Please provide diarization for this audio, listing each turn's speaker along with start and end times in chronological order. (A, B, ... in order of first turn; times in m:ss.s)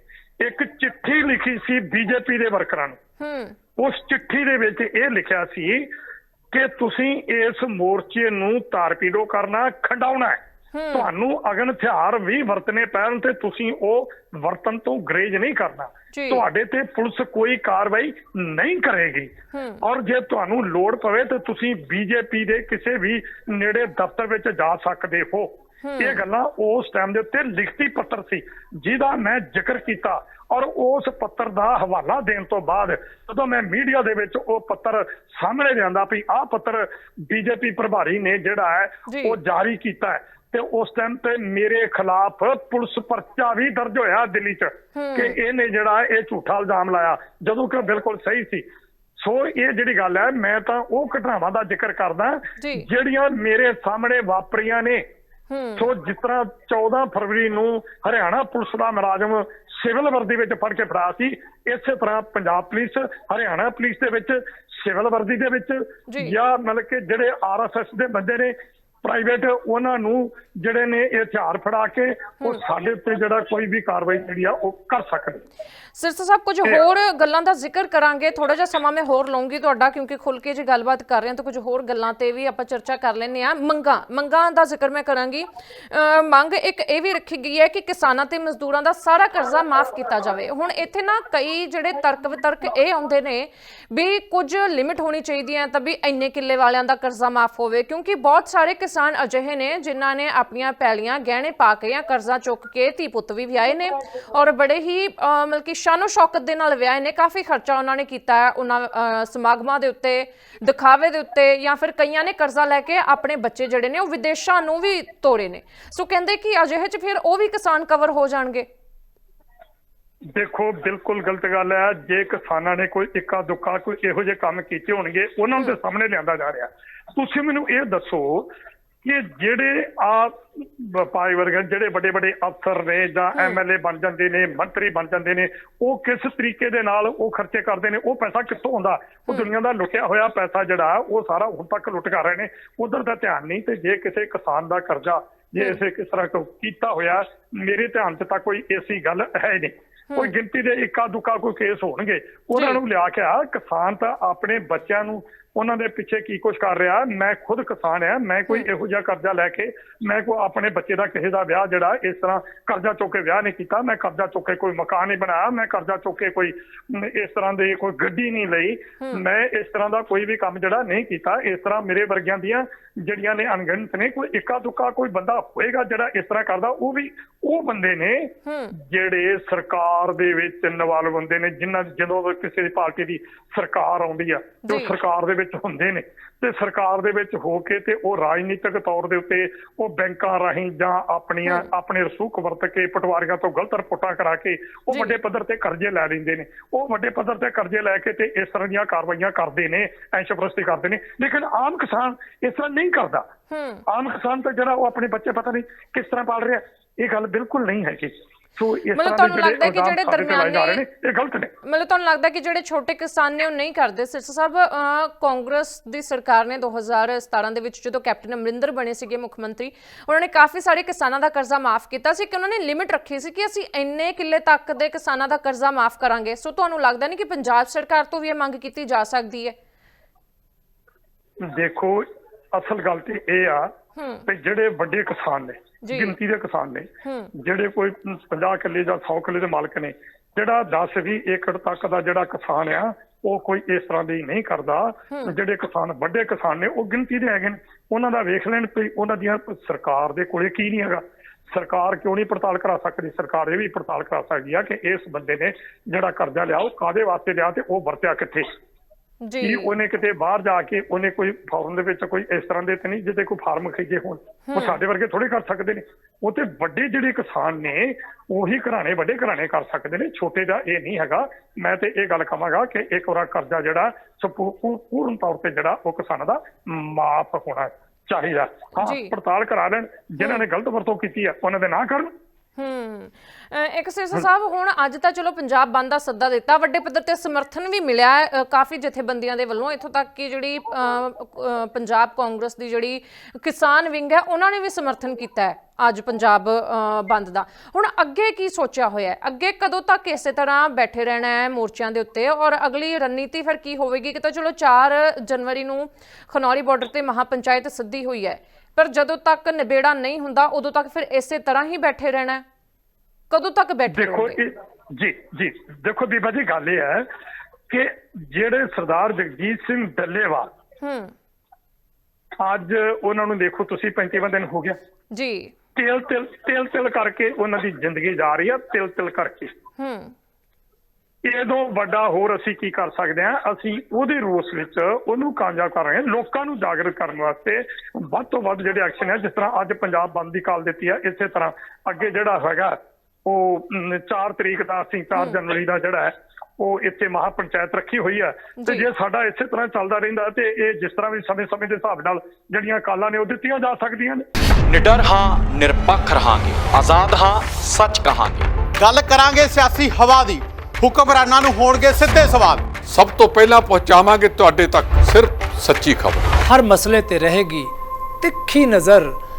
0:00.4-0:03.0 A
0:03.2-0:03.6 B
0:03.8-0:05.9 A
0:06.5-0:10.4 A
0:10.7-0:11.1 B
0:10.9-0:48.6 A
0:16.1-0:16.4 B
0:19.5-0:19.8 B
0:25.8-0:26.2 B
0:39.1-0:39.4 B
0:44.9-0:45.4 B
0:49.2-0:55.0 A
0:52.6-0:52.9 B
0:55.5-0:55.9 B
0:55.8-1:15.4 A
1:06.1-1:06.3 B
1:16.0-1:58.6 B
2:00.3-2:08.5 A
2:09.0-3:23.2 A
2:58.4-2:58.7 B
3:04.7-3:04.9 B
3:14.9-3:15.2 B
3:23.5-3:23.8 B
3:23.9-3:31.5 A
3:28.9-3:30.8 B
3:31.6-3:49.5 B
3:51.4-3:53.7 A
3:54.0-3:54.2 B
3:54.2-4:18.5 A
3:55.8-3:56.2 B
3:57.0-3:57.3 B
4:05.1-4:05.3 B
4:19.2-4:19.7 B
4:19.4-4:42.1 A
4:24.5-4:24.8 B
4:38.8-4:39.1 B
4:40.2-4:40.4 B
4:42.6-5:12.4 B
5:13.3-5:14.4 B
5:13.9-5:17.0 A
5:17.7-5:20.5 A
5:20.8-5:21.1 B
5:22.4-5:24.8 A
5:25.1-5:25.5 B
5:25.7-5:29.5 A
5:29.8-5:30.1 B
5:31.2-5:54.2 A
5:48.6-5:48.9 B
5:54.7-5:58.5 C
5:58.8-6:02.7 D
6:02.8-6:06.3 E
6:06.4-6:09.2 F